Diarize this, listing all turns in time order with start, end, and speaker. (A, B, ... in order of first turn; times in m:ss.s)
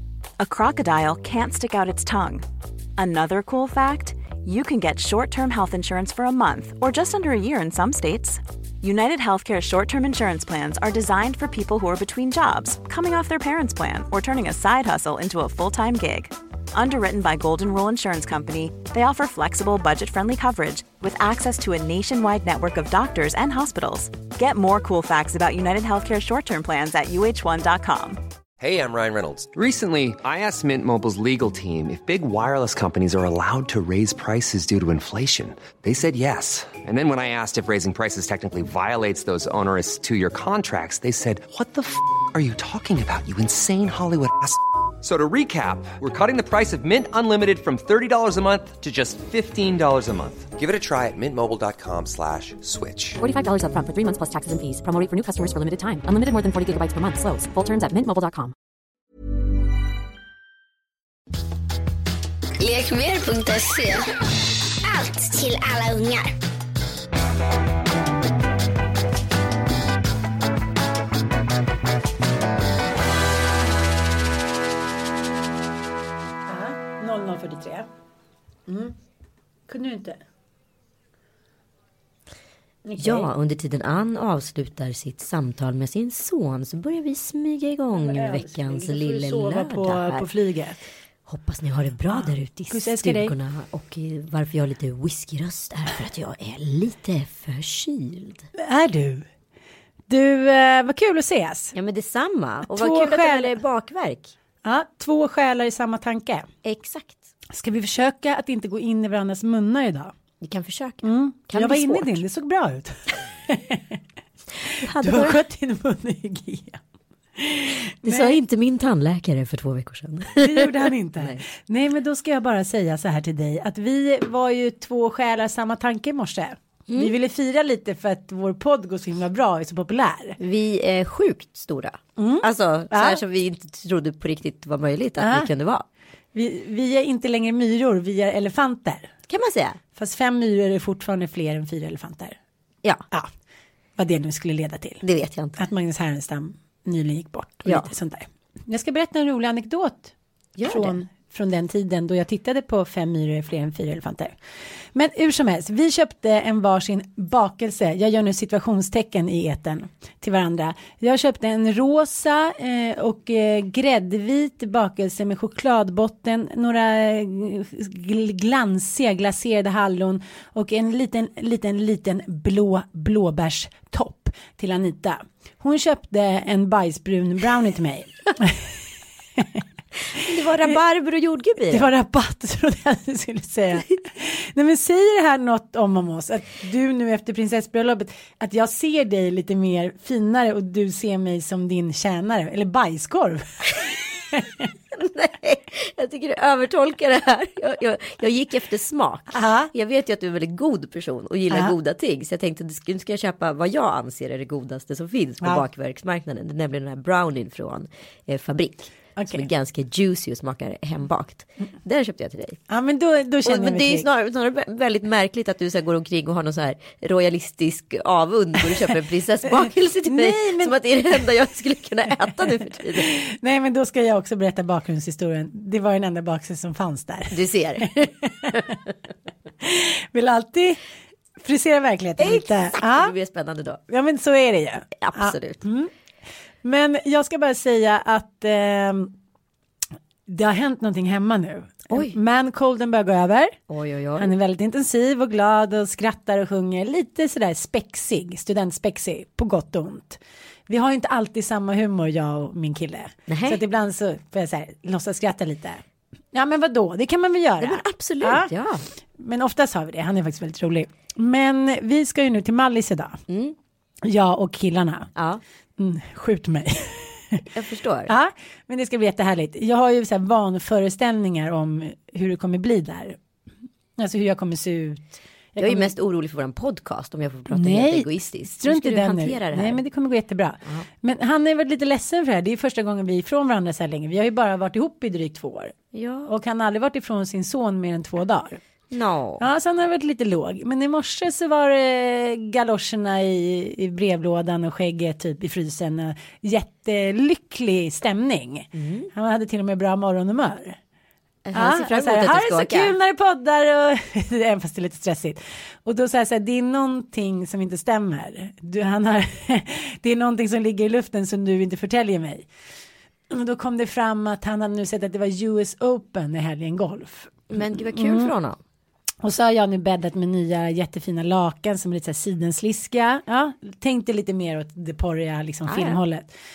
0:00.4-0:02.4 A
0:03.0-0:28.2 A
0:28.6-0:53.2 B
0:53.2-0:58.5 C
1:02.6-1:04.0 D
1:04.8-1:06.3 D
1:16.5-1:17.9 E
1:18.7-1:18.9 E
1:19.7-1:20.2 E
1:22.9-1:23.3 E
1:23.0-1:30.3 F
1:27.9-1:30.8 E
1:31.2-1:38.5 F
1:32.1-1:33.3 E
1:38.6-1:39.2 E
1:40.1-1:41.7 E
1:41.7-1:44.3 F
1:42.7-1:43.6 E
1:44.6-1:46.5 E
1:46.6-1:47.3 F
1:47.5-1:50.1 E
1:50.4-1:52.2 F
1:51.0-1:54.0 E
1:54.6-1:56.8 E
1:54.8-1:55.4 F
1:57.4-1:58.4 E
1:58.0-2:01.4 F
2:00.4-2:10.4 E
2:06.9-2:07.1 F
2:10.4-2:15.8 F
2:12.2-2:13.2 E
2:15.2-2:15.5 E
2:16.3-2:19.1 E
2:19.3-2:19.8 F
2:20.0-2:22.4 E
2:24.0-2:25.0 E
2:25.0-2:25.6 F
2:25.6-2:30.1 E
2:27.6-2:27.9 F
2:30.6-2:31.0 F
2:30.6-2:34.3 E
2:34.9-2:58.7 E
2:59.4-2:59.6 E
3:00.1-3:01.9 F
3:01.7-3:14.6 E
3:14.9-3:32.6 F
3:19.3-3:19.7 E
3:29.2-3:29.4 E
3:32.7-3:34.1 E
3:33.4-3:43.1 F
3:40.0-3:40.8 E
3:43.0-3:47.8 E
3:47.3-3:48.9 F
3:49.6-3:50.8 E
3:51.4-3:53.1 E
3:52.2-3:53.8 F
3:53.9-3:55.9 E
3:55.0-3:55.6 F
3:56.6-3:59.1 E
4:00.3-4:03.6 E
4:01.9-4:02.2 F
4:03.7-4:04.3 F
4:04.2-4:15.8 E
4:13.3-4:13.6 F
4:16.3-4:18.5 E
4:17.6-4:18.8 F
4:19.2-4:23.2 E
4:23.3-4:23.6 F
4:24.0-4:25.1 E
4:25.2-4:25.4 F
4:25.8-4:27.4 E
4:27.4-4:28.1 F
4:28.1-4:33.2 E
4:34.0-4:35.9 E
4:35.6-4:39.8 F
4:37.5-4:45.7 E
4:45.9-4:46.3 F
4:46.2-4:48.6 E
4:48.9-4:49.4 F
4:49.4-5:00.8 E
4:58.7-4:59.1 F
5:01.4-5:03.0 F
5:01.5-5:12.5 E
5:13.3-5:18.3 E
5:17.5-5:18.6 F
5:19.2-5:26.3 E
5:25.7-5:26.0 F